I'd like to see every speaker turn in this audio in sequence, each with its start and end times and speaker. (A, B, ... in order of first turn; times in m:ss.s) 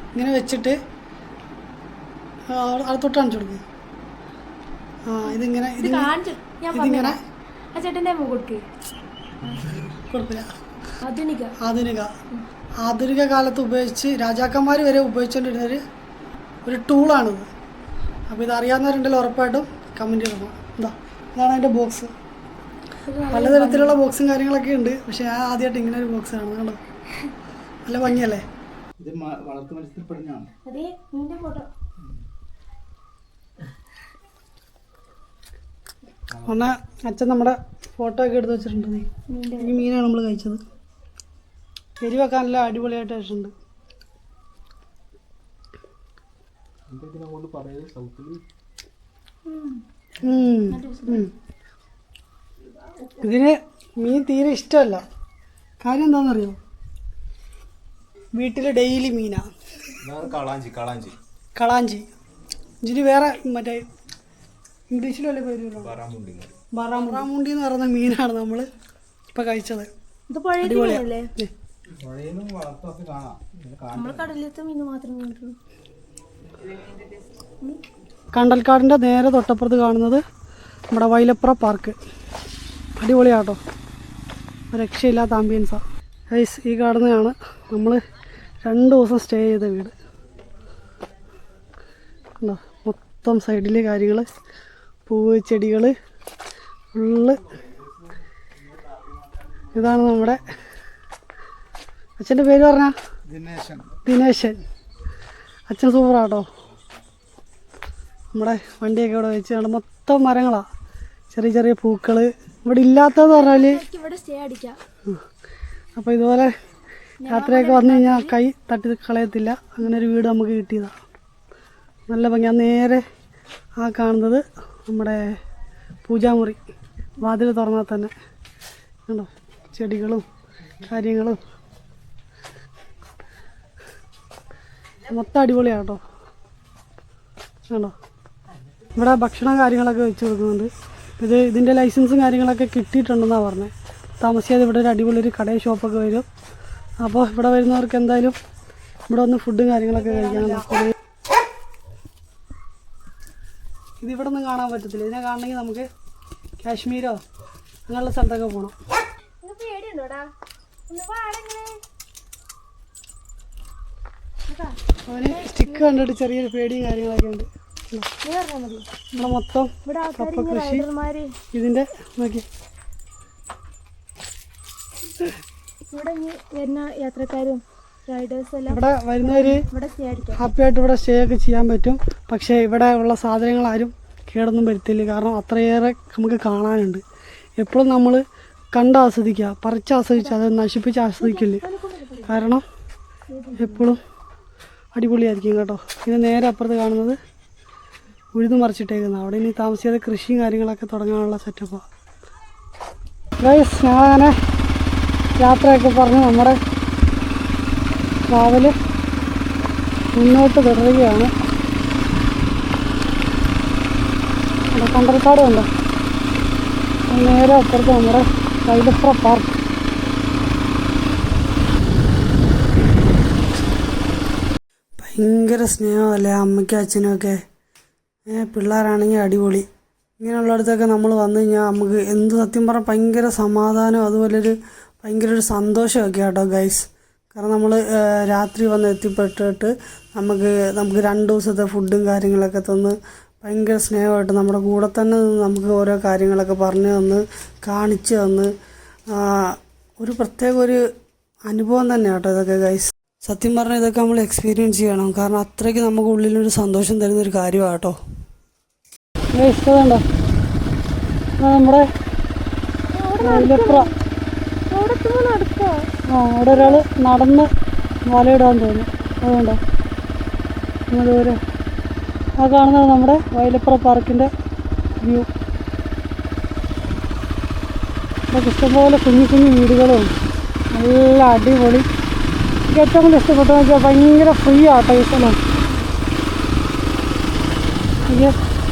0:00.2-0:00.8 A
0:02.5-0:03.6 A
0:05.1-0:06.1 A
0:05.2-0:07.2 B
0:06.7-0:07.2 A
0:07.7-0:08.6 B
0:09.4-0:09.7 B
0:09.5-0:09.9 C
0:10.1-0:10.5 A
0:11.0-0:11.6 B
0:11.6-0:12.1 A
0:12.8-0:15.8 A
0:16.7-0:17.5 A
0:18.3-0:22.1 A
0:23.0-0:24.0 B
0:23.3-0:26.8 A
0:27.9-0:28.4 A
0:29.0-0:30.5 C
0:30.6-0:31.7 B
0:36.3-0:36.7 C
0:36.5-0:39.1 A
0:39.3-0:39.9 B
0:39.6-0:40.6 A
0:42.0-0:43.5 A
0:46.9-0:48.4 C
0:49.5-0:49.8 B
0:50.2-0:51.3 A
0:50.7-0:51.3 B
0:53.2-0:55.0 A
0:55.8-0:56.6 A
0:58.4-0:59.5 A
1:00.0-1:01.2 C
1:01.6-1:02.1 A
1:02.8-1:03.9 A
1:04.9-1:05.9 A
1:05.8-1:06.5 C
1:06.7-1:08.7 A
1:06.9-1:07.3 B
1:09.3-1:09.9 A
1:10.3-1:11.3 B
1:10.6-1:11.5 A
1:12.0-1:14.3 C
1:14.0-1:15.6 B
1:18.4-1:20.2 A
1:20.9-1:22.0 A
1:23.0-1:23.6 A
1:24.7-1:28.0 A
1:28.6-1:29.9 A
1:32.4-1:34.3 A
1:35.1-1:36.0 A
1:37.0-1:37.4 A
1:39.7-1:40.4 A
1:42.2-1:42.9 A
1:43.3-1:43.9 C
1:44.0-1:44.6 A
1:45.7-1:46.5 A
1:48.4-1:50.7 A
1:51.3-1:53.8 A
1:53.1-1:54.8 B
1:56.0-1:56.5 A
1:57.2-1:58.4 B
1:57.3-2:01.0 A
2:02.1-2:03.0 A
2:03.8-2:05.4 A
2:06.1-2:06.6 A
2:07.2-2:08.1 A
2:09.1-2:10.2 A
2:10.8-2:11.4 A
2:15.1-2:16.0 A
2:19.0-2:26.3 A
2:27.0-2:28.4 A
2:29.1-2:30.9 A
2:29.9-2:30.7 B
2:34.0-2:35.9 A
2:36.6-2:37.2 A
2:37.9-2:38.8 A
2:39.4-2:40.3 B
2:40.9-2:41.8 B
2:44.5-2:46.0 B
2:45.1-2:48.1 A
2:48.2-2:49.3 B
2:49.2-2:50.9 A
2:49.8-2:51.4 B
2:51.5-2:52.5 A
2:55.9-3:00.4 B
2:58.7-2:59.6 A
3:00.4-3:07.0 A
3:07.6-3:08.2 A
3:08.8-3:11.6 A
3:10.2-3:10.4 B
3:11.2-3:12.5 B
3:12.3-3:12.6 A
3:13.3-3:13.8 B
3:13.6-3:14.0 A
3:14.9-3:17.2 A
3:18.4-3:21.8 A
3:23.4-3:24.4 A
3:25.4-3:26.6 A
3:28.3-3:28.8 A
3:30.2-3:31.3 A
3:34.7-3:35.7 A
3:37.1-3:39.6 A
3:45.0-3:47.4 A
3:48.3-3:49.7 A
3:50.2-4:08.5 A
4:09.1-4:10.8 A
4:11.5-4:18.0 A
4:19.4-4:20.0 A
4:21.4-4:21.9 A
4:22.9-4:24.0 B
4:23.2-4:23.9 A
4:24.7-4:25.9 B
4:26.1-4:27.5 A
4:26.5-4:26.8 B
4:28.1-4:29.6 A
4:30.9-4:31.4 A
4:32.4-4:34.3 A
4:35.0-4:35.3 A
4:38.3-4:40.1 A
4:40.7-4:41.9 A
4:42.7-4:45.4 A
4:48.1-4:48.4 A